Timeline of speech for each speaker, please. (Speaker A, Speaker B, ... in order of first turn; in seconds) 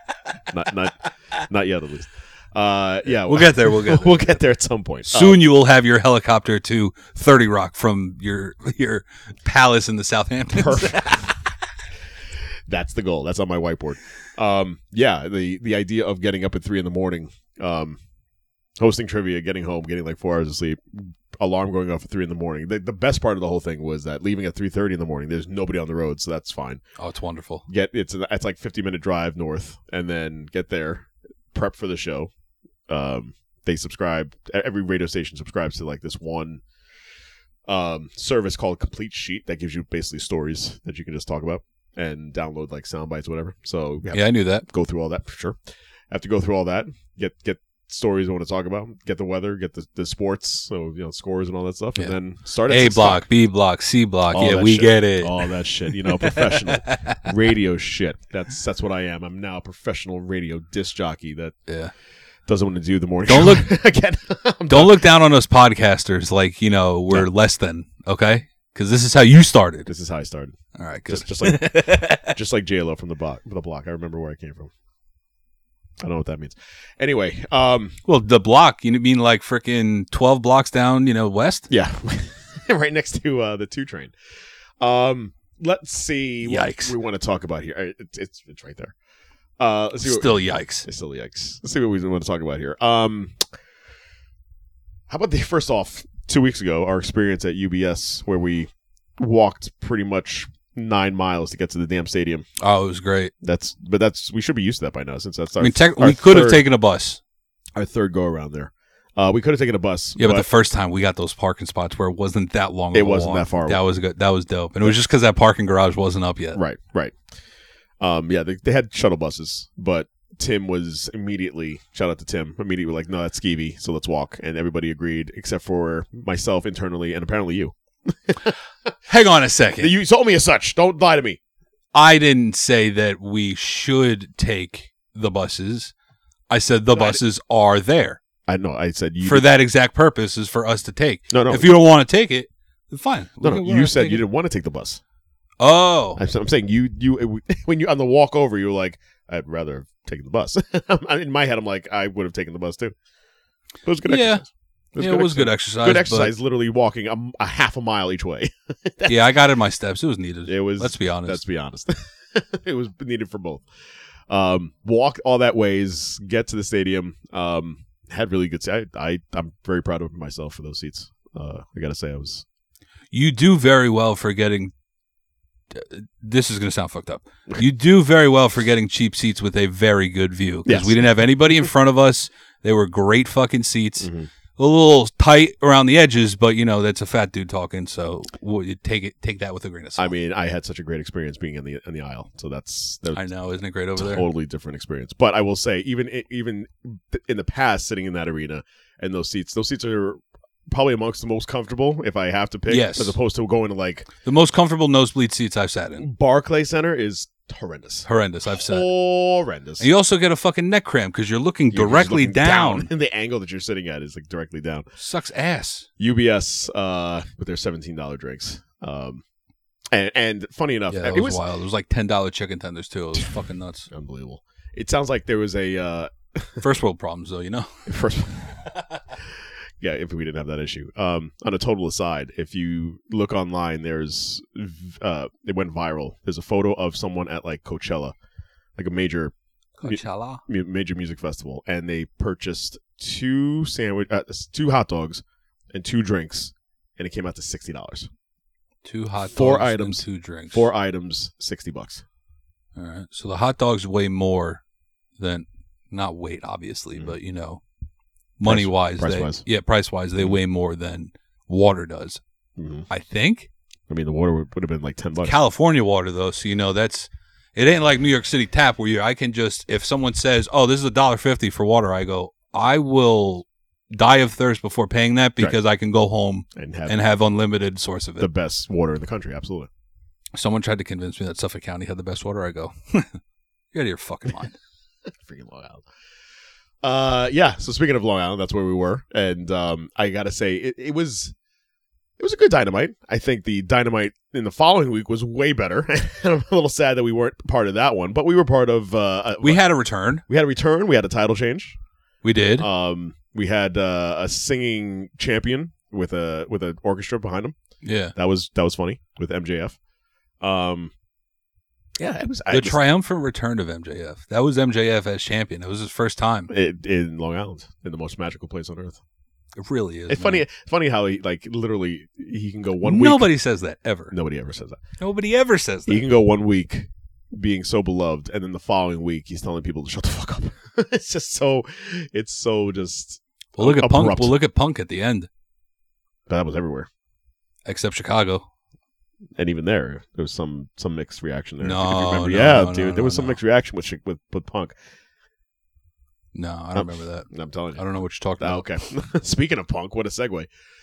Speaker A: 0.5-5.4, 10.5-11.3, 12.7-18.0, 18.8-26.8, 27.7-32.3, 32.9-36.6, 37.7-45.6, 46.1-53.2, 54.3-61.6, 62.5-65.0, 69.9-70.6, 71.1-74.7, 76.0-78.0, 81.7-84.1, 84.8-88.9, 89.6-93.5, 95.1-102.5, 103.4-106.6, 107.8-110.5, 112.9-113.8, 116.5-117.2, 118.0-128.9, 129.8-131.4, 136.9-137.2, 138.4-139.5, 141.3-141.8, 143.4-145.0, 146.2-152.9, 153.8-159.2, 160.5-163.7, 164.3-172.4, 180.7-181.1, 184.0-184.3, 190.0-193.3, 194.0-204.1, 206.0-209.9, 211.7-214.9, 216.0-219.2, 219.9-221.4, 223.9-226.6, 227.9-228.6, 229.8-238.2, 238.8-239.3, 239.8-248.1, 249.2-252.0, 258.4-259.4, 262.6-262.9, 263.9-265.4, 276.6-277.0, 278.2-279.7, 285.1-285.9, 286.8-291.4, 292.2-299.6, 300.3-301.8, 302.6-307.6, 308.1-309.8, 310.4-310.9, 312.0-312.8, 316.5-319.0, 320.1-323.3, 324.1-324.8, 325.9-334.4, 336.3-336.9, 339.4-344.8, 346.7-347.8, 348.4-350.5
Speaker B: 3.1-4.2, 5.1-11.2, 27.0-27.6, 44.1-44.7, 52.0-57.2, 61.7-61.9, 63.3-63.7, 64.7-69.9, 70.8-72.4, 78.1-81.7, 86.4-87.0, 90.0-90.9, 102.6-103.3, 105.6-107.2, 110.2-116.6, 129.1-129.9, 131.9-135.9, 136.5-138.2, 139.2-144.2, 145.6-146.2, 154.1-154.4, 155.0-156.3, 159.1-161.4, 173.1-174.7, 175.7-190.1, 193.1-194.3, 202.7-203.2, 204.2-206.1, 208.1-208.9, 209.8-212.9, 215.0-215.9, 220.9-223.9, 226.6-227.9, 239.8-240.4, 248.8-250.7, 252.8-254.6, 255.2-257.6, 258.4-262.2, 262.9-263.5, 265.2-278.3, 280.4-283.2, 283.7-284.6, 299.4-300.2, 302.2-302.7, 307.8-308.1, 312.5-316.5, 319.6-320.5, 322.8-324.1, 325.0-326.1, 333.6-335.3, 337.7-338.5, 341.6-343.4, 346.3-348.7